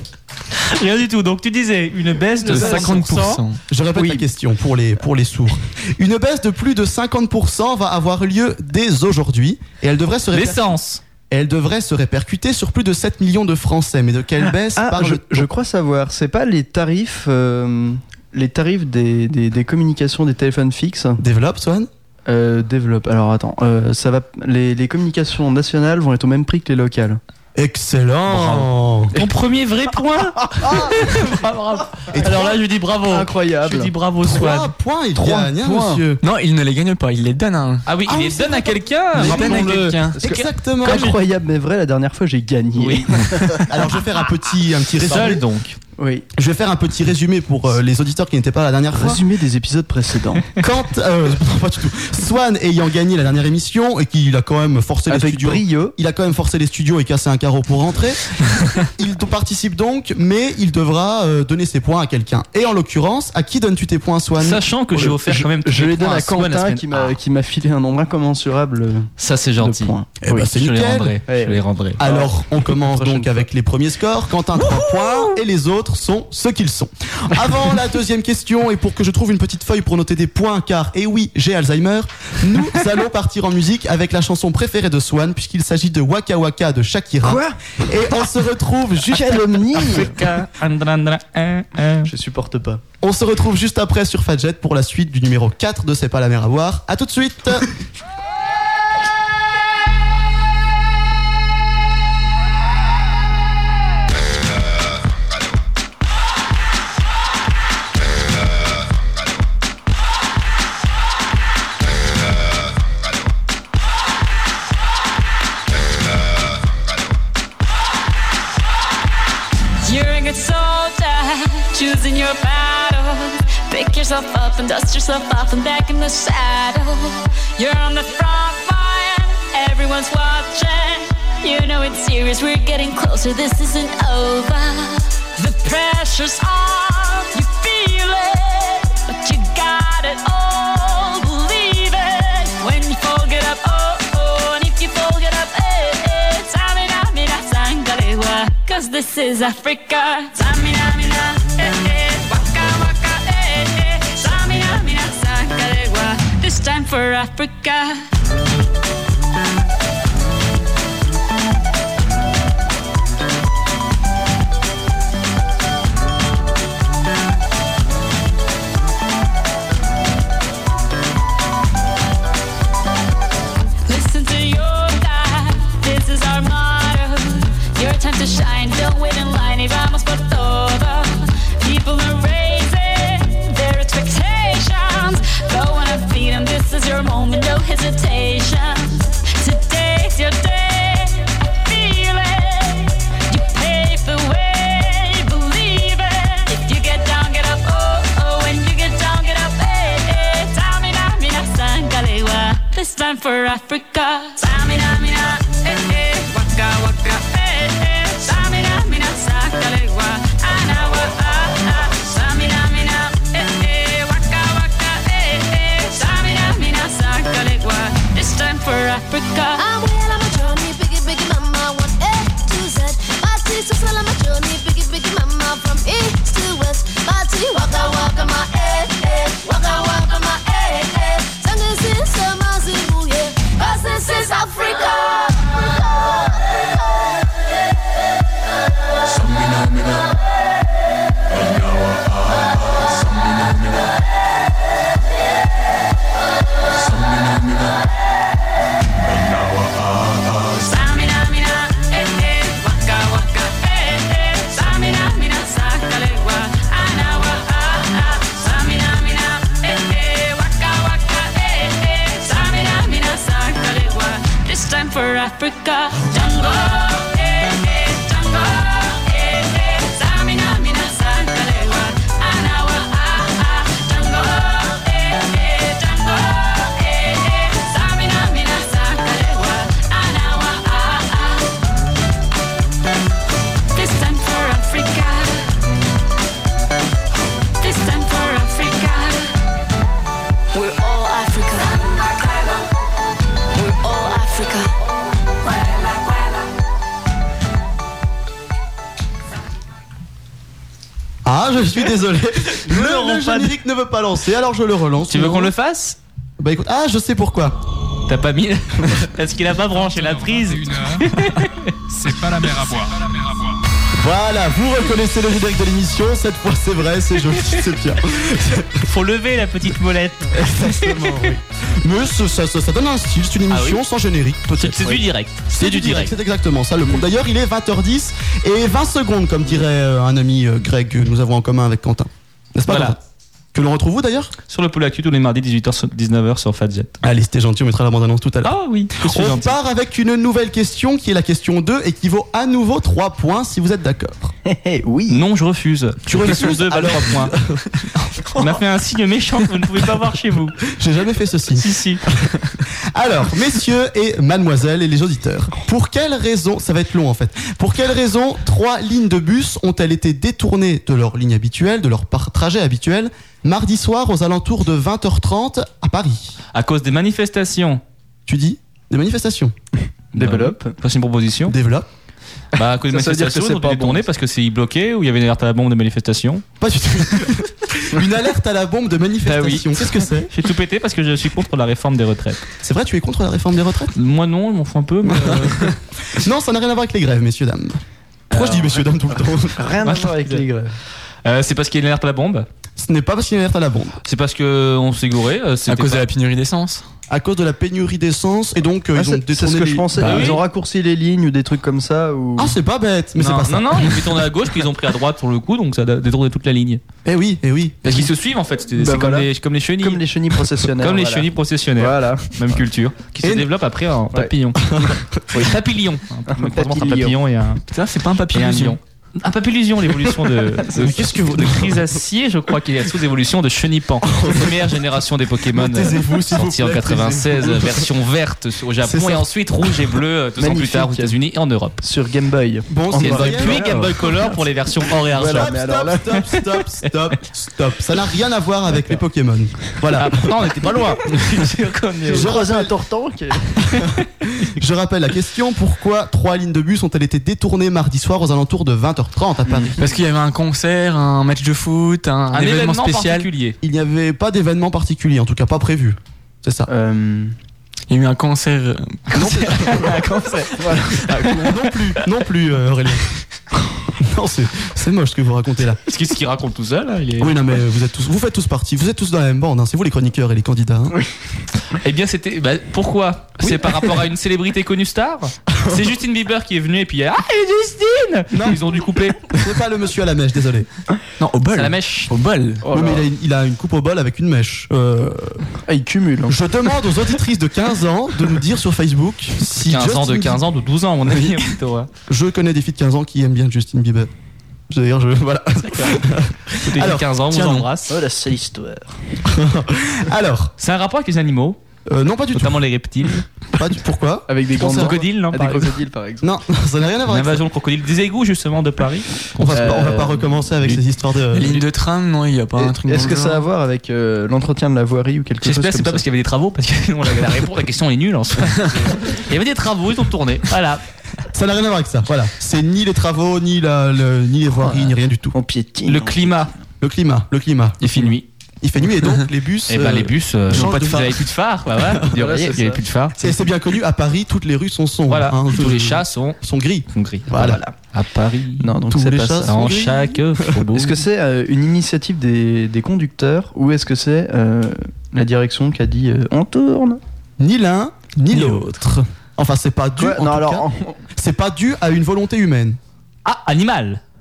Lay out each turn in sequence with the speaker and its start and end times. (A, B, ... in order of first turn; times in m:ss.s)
0:00.7-0:03.4 A
0:02.5-0:03.6 B
0:02.6-0:02.9 C
0:03.7-0:10.7 D
0:04.0-0:04.2 C
0:10.3-0:11.0 A
0:11.3-0:15.5 D
0:14.8-0:21.2 C
0:21.2-0:21.9 D
0:22.3-0:27.2 C
0:27.6-0:29.1 D
0:28.3-0:34.7 A
0:32.1-0:32.6 D
0:33.1-0:33.9 C
0:34.2-0:36.2 D
0:35.2-0:36.0 C
0:36.2-0:38.5 B
0:37.9-0:41.2 A
0:39.1-0:40.2 B
0:39.1-0:41.1 D
0:40.8-0:43.7 C
0:42.8-0:43.7 A
0:43.6-0:45.4 D
0:44.9-0:45.8 A
0:46.0-0:46.3 C
0:46.4-0:49.2 D
0:48.9-0:50.6 C
0:50.6-1:04.6 D
0:55.1-0:56.0 C
1:04.4-1:07.2 A
1:04.9-1:10.5 C
1:09.2-1:12.0 A
1:10.2-1:11.2 D
1:11.3-1:13.5 C
1:12.0-1:29.5 D
1:27.2-1:27.6 C
1:29.1-1:30.4 C
1:29.8-1:32.1 A
1:32.0-1:32.8 C
1:33.0-1:37.7 D
1:59.8-2:38.0 E
2:53.9-3:39.6 E
3:39.6-3:56.7 F
4:10.6-4:41.5 E
4:43.8-4:45.4 E
4:47.6-4:49.3 E
4:50.6-4:51.6 E
4:53.7-4:54.6 E
5:01.2-5:05.5 D
5:02.6-5:03.6 A
5:05.1-5:06.0 A
5:06.4-5:07.6 D
5:08.1-5:11.7 A
5:09.7-5:11.3 G
5:11.9-5:13.6 G
5:13.9-5:18.9 D
5:18.8-5:21.2 A
5:20.3-5:33.0 D
5:23.5-5:23.8 A
5:24.5-5:26.2 A
5:32.7-5:33.0 A
5:33.5-5:34.3 D
5:34.5-5:37.0 A
5:37.0-5:44.3 D
5:38.4-5:39.6 A
5:44.4-5:45.2 C
5:45.1-5:47.4 A
5:46.1-5:48.4 D
5:48.4-5:50.6 A
5:50.7-5:51.7 D
5:51.6-5:52.0 A
5:52.3-6:06.4 D
6:06.5-6:07.8 A
6:08.3-6:09.6 D
6:10.2-6:10.8 C
6:10.2-6:11.6 A
6:11.5-6:11.9 D
6:12.6-6:16.4 A
6:12.9-6:14.0 C
6:16.6-6:20.3 D
6:19.3-6:20.1 C
6:20.3-6:22.4 A
6:22.6-6:23.9 D
6:24.0-6:25.7 A
6:25.0-6:27.8 D
6:28.3-6:29.6 D
6:28.3-6:29.0 C
6:29.5-6:30.7 C
6:29.8-6:30.5 A
6:31.2-6:32.5 A
6:32.8-6:34.0 D
6:34.0-6:36.1 A
6:35.7-6:36.8 B
6:37.1-6:40.3 D
6:39.0-6:42.6 C
6:40.0-6:40.4 A
6:42.4-6:44.0 D
6:43.2-6:46.8 A
6:47.0-6:48.1 D
6:47.8-6:50.0 A
6:48.7-6:52.6 C
6:50.7-6:54.6 A
6:53.2-6:53.5 D
6:54.6-6:55.5 D
6:55.3-6:57.6 A
6:56.3-6:57.2 C
6:57.7-6:58.8 B
6:58.3-7:11.8 A
7:00.7-7:01.9 D
7:04.0-7:04.8 D
7:05.5-7:07.9 D
7:08.8-7:09.3 D
7:10.4-7:11.2 C
7:11.8-7:14.4 C
7:12.7-7:13.8 D
7:13.0-7:15.5 A
7:15.0-7:16.2 C
7:15.2-7:20.3 D
7:16.3-7:16.9 A
7:19.9-7:22.4 A
7:22.1-7:22.7 D
7:22.1-7:23.8 C
7:24.4-7:29.8 D
7:29.5-7:29.8 C
7:29.8-7:33.3 B
7:32.3-7:33.6 A
7:33.6-7:36.7 D
7:36.7-7:37.4 C
7:37.9-7:39.4 B
7:39.1-7:41.3 A
7:39.1-7:40.1 D
7:40.5-7:41.5 C
7:41.3-7:43.1 D
7:44.0-7:45.8 D
7:45.9-7:47.4 A
7:47.2-7:51.0 D
7:51.8-7:59.2 A
7:55.6-7:55.8 D
7:58.3-7:58.6 D
7:59.3-8:00.7 D
8:01.2-8:02.7 B
8:01.6-8:02.1 A
8:02.6-8:03.1 C
8:02.7-8:05.5 D
8:05.7-8:06.4 C
8:06.3-8:10.4 D
8:09.7-8:11.9 A
8:12.1-8:14.1 D
8:14.7-8:17.1 D
8:15.8-8:16.0 A
8:16.6-8:18.0 A
8:17.3-8:17.7 B
8:17.9-8:19.0 C
8:19.3-8:20.5 D
8:20.6-8:21.6 A
8:21.9-8:22.6 D
8:22.3-8:23.3 A
8:23.5-8:25.0 D
8:24.3-8:26.3 C
8:24.5-8:25.8 A
8:26.2-8:27.4 D
8:27.1-8:29.9 A
8:29.4-8:31.6 D
8:29.5-8:30.3 C
8:30.6-8:33.5 B
8:32.6-8:36.1 C
8:35.4-8:40.8 A
8:41.3-8:45.4 D
8:44.8-8:46.5 C
8:45.8-8:46.5 A
8:46.8-8:51.2 D
8:47.8-8:48.3 A
8:49.7-8:53.3 A
8:50.5-8:51.0 B
8:52.1-8:52.8 C
8:53.2-8:57.6 D
8:55.1-8:56.4 A
8:56.9-8:58.8 A
8:57.4-8:57.7 C
8:58.6-8:59.5 C
8:58.9-9:00.5 D
8:59.4-9:01.0 A
9:00.7-9:07.0 C
9:07.4-9:12.8 D
9:08.3-9:08.6 B
9:10.0-9:11.0 C
9:13.2-9:14.0 A